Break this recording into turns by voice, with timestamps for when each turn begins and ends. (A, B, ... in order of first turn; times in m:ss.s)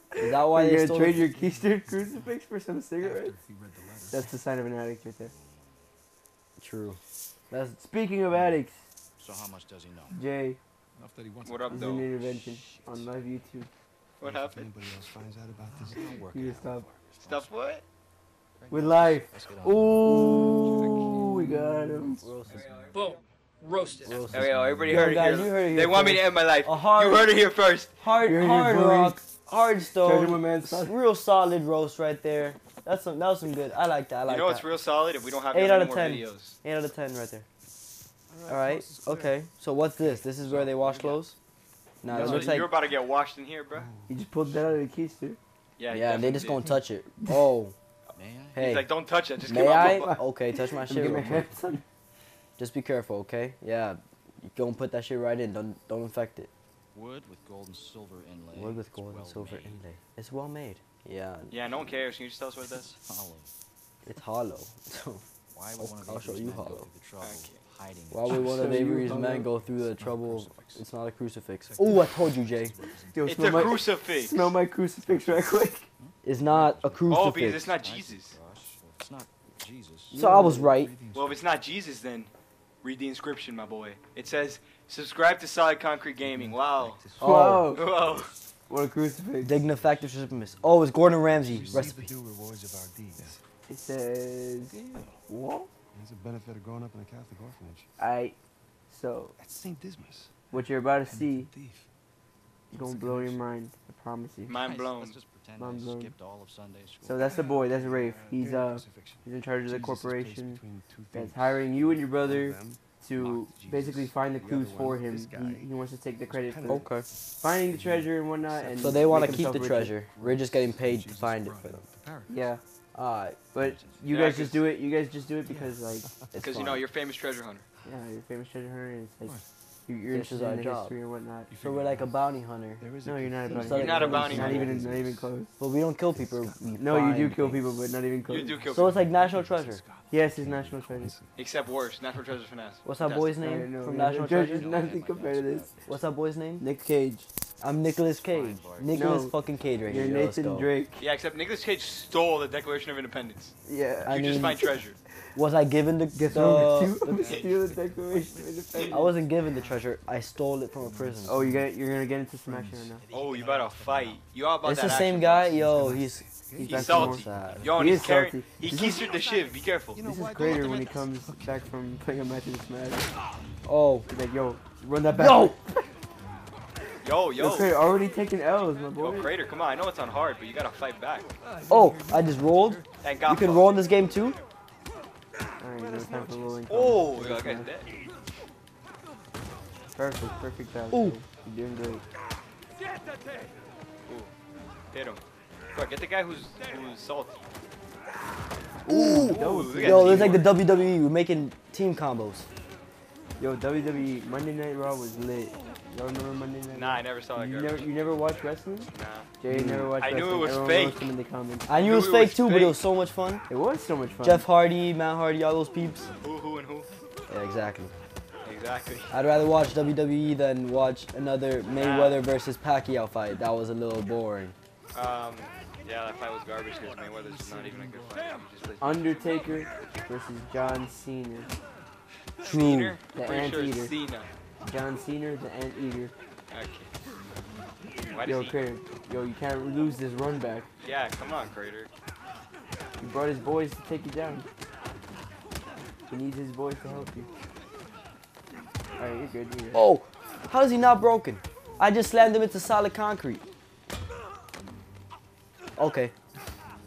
0:00.2-0:01.2 A
0:00.2-0:03.4 B
0:01.1-0:02.3 C
0:03.0-0:04.2 C
0:04.1-0:05.3 B
0:05.2-0:05.8 D
0:06.6-0:07.8 A
0:07.8-0:08.9 B
0:09.2-0:10.2 D
0:10.1-0:10.6 B
0:10.9-0:12.1 C
0:11.4-0:12.0 E
0:11.7-0:13.7 B
0:14.2-0:14.7 E
0:14.2-0:16.2 F
0:15.6-0:16.1 C
0:15.8-0:17.5 D
0:16.3-0:16.8 B
0:17.2-0:17.8 E
0:18.6-0:21.3 D
0:18.7-0:22.2 B
0:22.2-0:22.6 A
0:22.2-0:23.2 D
0:23.8-0:25.2 D
0:24.0-0:27.3 A
0:24.3-0:27.9 E
0:28.0-0:34.7 A
0:28.2-0:29.2 B
0:29.9-0:31.0 B
0:34.2-0:36.6 E
0:35.5-0:37.4 A
0:38.3-0:39.3 C
0:38.3-0:39.0 F
0:38.5-0:41.4 A
0:40.0-0:41.0 C
0:42.0-0:42.7 A
0:42.1-0:43.9 E
0:42.1-0:42.4 B
0:43.7-0:44.7 C
0:44.1-0:45.4 B
0:45.8-0:46.6 E
0:45.9-0:47.7 A
0:48.2-0:48.6 D
0:48.5-0:48.9 A
0:48.6-0:50.2 E
0:49.4-0:51.5 A
0:49.6-0:51.8 B
0:52.6-0:56.5 A
0:56.9-0:59.8 D
0:58.5-1:01.5 A
1:01.5-1:03.0 E
1:03.0-1:03.5 D
1:04.0-1:05.2 A
1:05.5-1:08.4 D
1:05.8-1:06.9 A
1:07.2-1:07.6 E
1:08.1-1:12.8 A
1:08.3-1:08.6 C
1:08.4-1:09.5 B
1:10.0-1:10.8 C
1:11.6-1:13.7 C
1:13.1-1:15.9 B
1:13.2-1:14.5 E
1:16.0-1:20.2 D
1:16.2-1:17.7 A
1:17.1-1:18.3 E
1:20.1-1:20.7 B
1:20.1-1:20.9 A
1:20.7-1:21.4 C
1:21.1-1:22.3 E
1:22.8-1:27.0 E
1:26.2-1:27.6 F
1:27.2-1:27.8 A
1:27.2-1:27.9 B
1:27.7-1:28.3 E
1:28.7-1:29.5 B
1:29.4-1:32.1 A
1:29.7-1:30.6 C
1:31.4-1:31.8 C
1:31.5-1:33.4 F
1:33.7-1:35.7 B
1:34.7-1:35.1 C
1:35.9-1:37.9 F
1:38.0-1:38.4 B
1:38.9-1:39.3 B
1:39.4-1:40.4 F
1:40.5-1:41.5 B
1:41.1-1:41.8 C
1:42.7-1:43.4 C
1:42.7-1:44.5 B
1:44.5-1:45.2 E
1:44.6-1:47.3 D
1:45.6-1:46.1 B
1:47.0-1:50.6 B
1:47.3-1:48.0 C
1:47.3-2:02.3 F
1:51.1-1:56.9 B
1:56.7-1:57.1 A
1:57.4-1:59.9 B
1:58.8-1:59.2 C
1:58.8-2:01.8 A
2:00.6-2:02.3 C
2:02.3-2:02.6 B
2:02.9-2:03.4 A
2:03.5-2:06.1 B
2:03.6-2:04.1 D
2:04.1-2:04.6 E
2:05.4-2:06.4 F
2:06.3-2:06.8 A
2:06.4-2:07.6 E
2:07.8-2:11.5 B
2:10.1-2:11.0 A
2:11.5-2:12.1 C
2:11.6-2:12.8 A
2:12.8-2:15.3 F
2:13.0-2:15.5 B
2:13.5-2:14.7 A
2:13.7-2:14.7 E
2:13.7-2:15.0 C
2:15.6-2:17.7 A
2:16.2-2:16.8 F
2:16.8-2:18.6 B
2:18.3-2:19.0 E
2:18.4-2:21.4 C
2:18.7-2:19.8 A
2:20.1-2:21.2 B
2:21.4-2:23.3 E
2:22.8-2:24.6 A
2:23.4-2:25.6 B
2:24.1-2:26.0 D
2:25.8-2:26.6 A
2:26.6-2:27.3 B
2:27.6-2:30.7 A
2:28.2-2:30.2 D
2:28.9-2:31.0 B
2:31.0-2:33.5 E
2:33.6-2:34.2 B
2:34.0-2:34.7 A
2:34.1-2:35.0 E
2:35.3-2:37.2 A
2:36.1-2:39.1 B
2:38.9-2:41.4 A
2:39.5-2:39.8 D
2:40.8-2:41.7 C
2:41.2-2:43.0 B
2:42.5-2:42.9 C
2:42.9-2:44.2 D
2:43.1-2:45.6 E
2:44.6-2:47.7 A
2:45.4-2:47.7 C
2:46.4-2:48.0 F
2:46.6-2:49.0 B
2:46.6-2:50.0 E
2:49.9-2:51.7 F
2:50.0-2:53.1 B
2:53.6-2:54.1 A
2:54.1-2:55.9 B
2:55.1-2:55.6 A
2:57.0-2:57.8 E
2:57.4-2:59.3 B
2:59.0-3:01.3 E
3:01.4-3:02.9 C
3:01.7-3:04.4 A
3:03.0-3:03.7 E
3:05.6-3:07.7 B
3:05.8-3:06.6 C
3:06.7-3:07.9 E
3:09.9-3:12.0 B
3:10.9-3:11.2 A
3:12.8-3:13.5 C
3:14.1-3:14.3 E
3:14.9-3:15.2 E
3:15.7-3:17.3 E
3:18.8-3:20.5 B
3:18.8-3:22.5 A
3:19.1-3:20.5 E
3:23.4-3:31.7 B
3:26.7-3:27.9 E
3:28.9-3:29.3 E
3:29.5-3:29.9 A
3:29.9-3:31.1 E
3:31.7-3:33.4 A
3:31.7-3:32.8 E
3:33.5-3:34.5 B
3:34.2-3:36.1 A
3:36.2-3:36.9 E
3:37.3-3:37.9 A
3:38.4-3:39.1 E
3:39.1-3:44.5 A
3:41.7-3:42.2 E
3:44.9-3:49.0 E
3:46.8-3:48.5 C
3:48.8-3:51.5 B
3:49.5-3:49.9 C
3:52.4-3:53.0 A
3:52.4-3:54.3 E
3:53.1-3:53.9 B
3:54.6-3:56.1 B
3:56.5-3:56.9 E
3:58.1-3:58.6 E
3:58.2-4:00.7 B
4:00.8-4:01.9 E
4:03.0-4:04.5 B
4:06.1-4:07.3 B
4:09.0-4:09.8 B
4:09.7-4:13.4 A
4:15.8-4:16.1 A